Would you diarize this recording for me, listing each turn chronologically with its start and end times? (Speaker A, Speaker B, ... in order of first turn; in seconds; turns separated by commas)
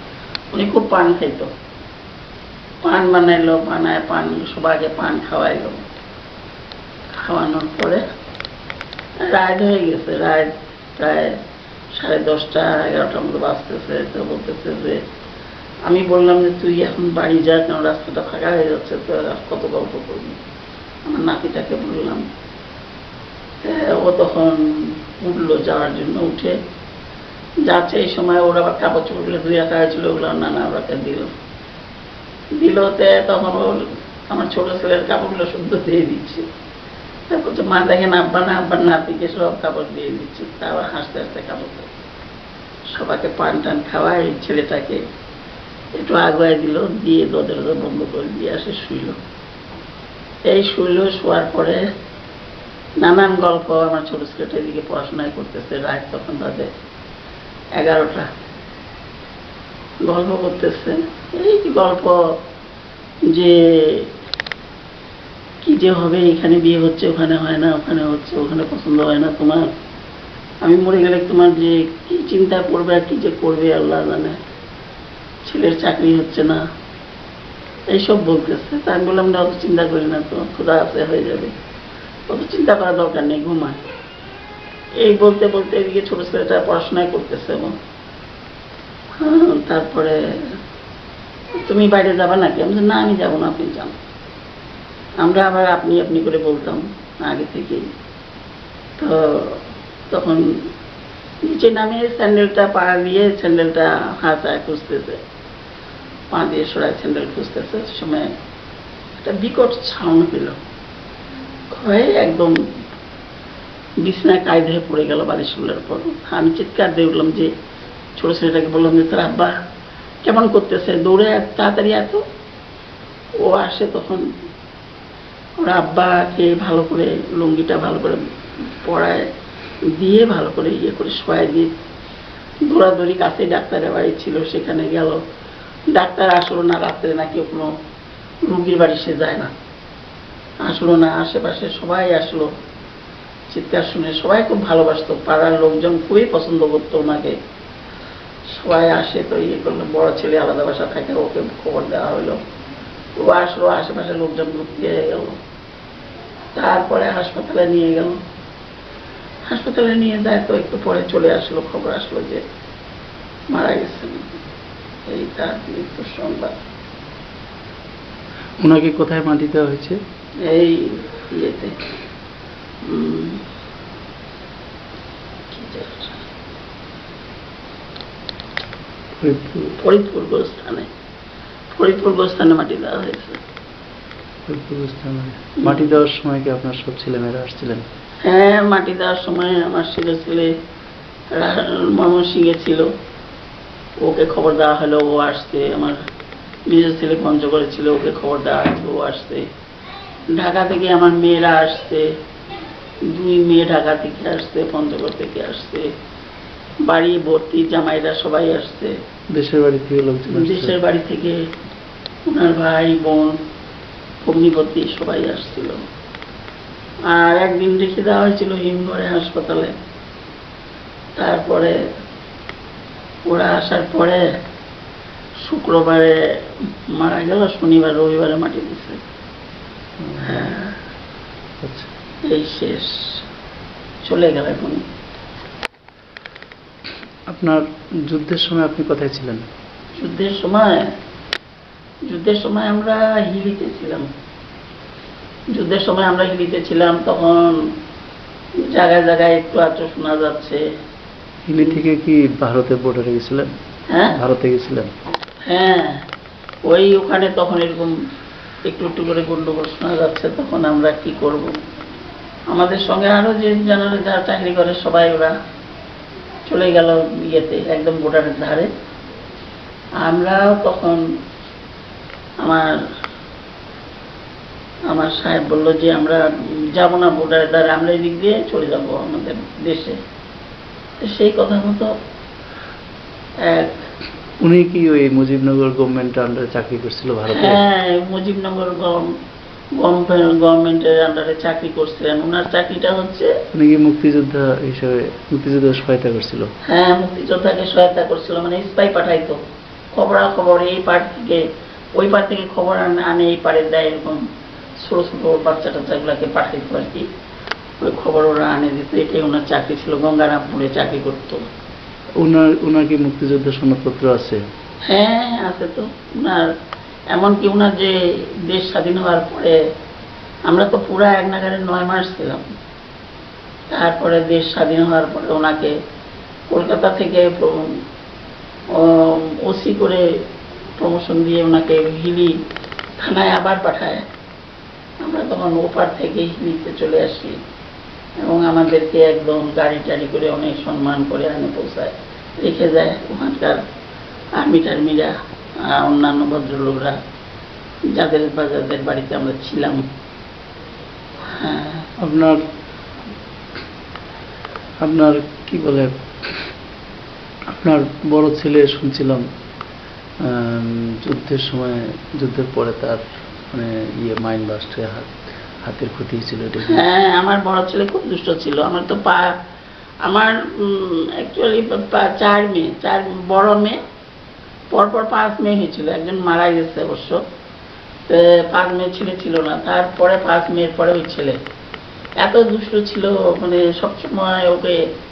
Speaker A: 0.5-1.5, Speaker A: 2.8-5.9, Speaker A: 7.1-8.0, Speaker A: 9.2-11.4, Speaker A: 11.9-15.0, Speaker A: 15.9-20.4, Speaker A: 21.1-22.3, Speaker A: 23.6-26.6, Speaker A: 27.6-31.3, Speaker A: 32.5-36.5, Speaker A: 37.3-41.9, Speaker A: 42.9-45.0, Speaker A: 46.0-49.2, Speaker A: 50.5-51.9, Speaker A: 53.0-56.7, Speaker A: 57.8-58.3, Speaker A: 60.0-62.4, Speaker A: 63.3-64.1, Speaker A: 65.6-69.7, Speaker A: 70.6-74.4, Speaker A: 75.5-76.6, Speaker A: 77.9-81.5, Speaker A: 82.3-83.8, Speaker A: 85.0-87.8, Speaker A: 89.2-90.6, Speaker A: 91.5-94.0, Speaker A: 95.2-97.9, Speaker A: 99.0-100.7, Speaker A: 101.4-105.2, Speaker A: 106.3-108.3, Speaker A: 109.2-110.6, Speaker A: 111.7-112.6, Speaker A: 114.0-117.5, Speaker A: 118.2-119.5, Speaker A: 120.2-122.2, Speaker A: 123.4-124.3, Speaker A: 125.6-129.3, Speaker A: 129.8-131.8, Speaker A: 132.7-135.2, Speaker A: 135.9-137.8, Speaker A: 138.4-139.5, Speaker A: 140.6-142.5, Speaker A: 143.5-147.4, Speaker A: 148.5-152.4, Speaker A: 153.2-155.4, Speaker A: 156.5-158.2, Speaker A: 159.5-162.5, Speaker A: 163.5-164.4, Speaker A: 165.1-166.6, Speaker B: 168.6-170.0, Speaker A: 170.4-171.8, Speaker A: 172.8-173.4, Speaker A: 175.5-176.2, Speaker B: 179.2-179.8, Speaker A: 179.8-180.9, Speaker A: 181.7-183.4, Speaker B: 184.5-187.8, Speaker A: 185.6-186.0, Speaker A: 188.2-190.6, Speaker A: 191.3-192.9, Speaker A: 194.0-196.0, Speaker A: 196.7-199.5, Speaker A: 200.3-202.2, Speaker A: 203.0-205.9, Speaker A: 206.8-209.0, Speaker B: 209.3-210.8, Speaker A: 210.3-211.5, Speaker A: 212.3-213.4, Speaker A: 214.2-215.9, Speaker A: 217.1-219.8, Speaker A: 221.2-221.8, Speaker A: 223.3-224.3, Speaker A: 225.4-229.0, Speaker B: 230.0-230.6, Speaker A: 230.2-230.8, Speaker B: 231.6-231.9, Speaker A: 232.2-233.3, Speaker A: 234.0-234.8, Speaker B: 237.3-239.5, Speaker A: 239.9-241.0, Speaker A: 242.1-244.1, Speaker A: 245.5-247.6, Speaker A: 248.6-250.6, Speaker B: 251.5-253.5, Speaker A: 253.9-254.2, Speaker B: 254.1-254.9, Speaker A: 255.4-256.1, Speaker A: 256.7-257.9, Speaker A: 258.6-261.6, Speaker A: 262.5-265.4, Speaker A: 266.5-268.7, Speaker A: 270.0-271.0, Speaker A: 272.4-272.8, Speaker A: 274.9-280.0, Speaker A: 281.0-281.9, Speaker A: 283.4-283.9, Speaker B: 284.4-287.6, Speaker A: 287.3-289.1, Speaker A: 289.8-293.4, Speaker B: 293.5-296.5, Speaker A: 296.6-299.4, Speaker A: 299.9-304.2, Speaker A: 304.8-307.1, Speaker A: 307.8-311.4, Speaker B: 312.2-314.4, Speaker A: 314.9-316.5, Speaker A: 317.1-319.6, Speaker A: 320.5-322.4, Speaker A: 323.7-325.8, Speaker A: 326.5-327.8, Speaker A: 328.7-332.4, Speaker A: 333.0-334.1, Speaker A: 335.0-337.4, Speaker A: 338.2-343.6, Speaker A: 344.4-347.0, Speaker A: 347.9-349.8, Speaker A: 351.3-351.9, Speaker B: 352.0-352.4, Speaker B: 354.8-356.5, Speaker B: 357.5-359.3, Speaker B: 360.2-365.1, Speaker B: 365.6-366.9, Speaker A: 366.6-369.4, Speaker A: 370.0-373.8, Speaker A: 374.7-377.2, Speaker A: 378.1-381.4, Speaker A: 382.2-384.9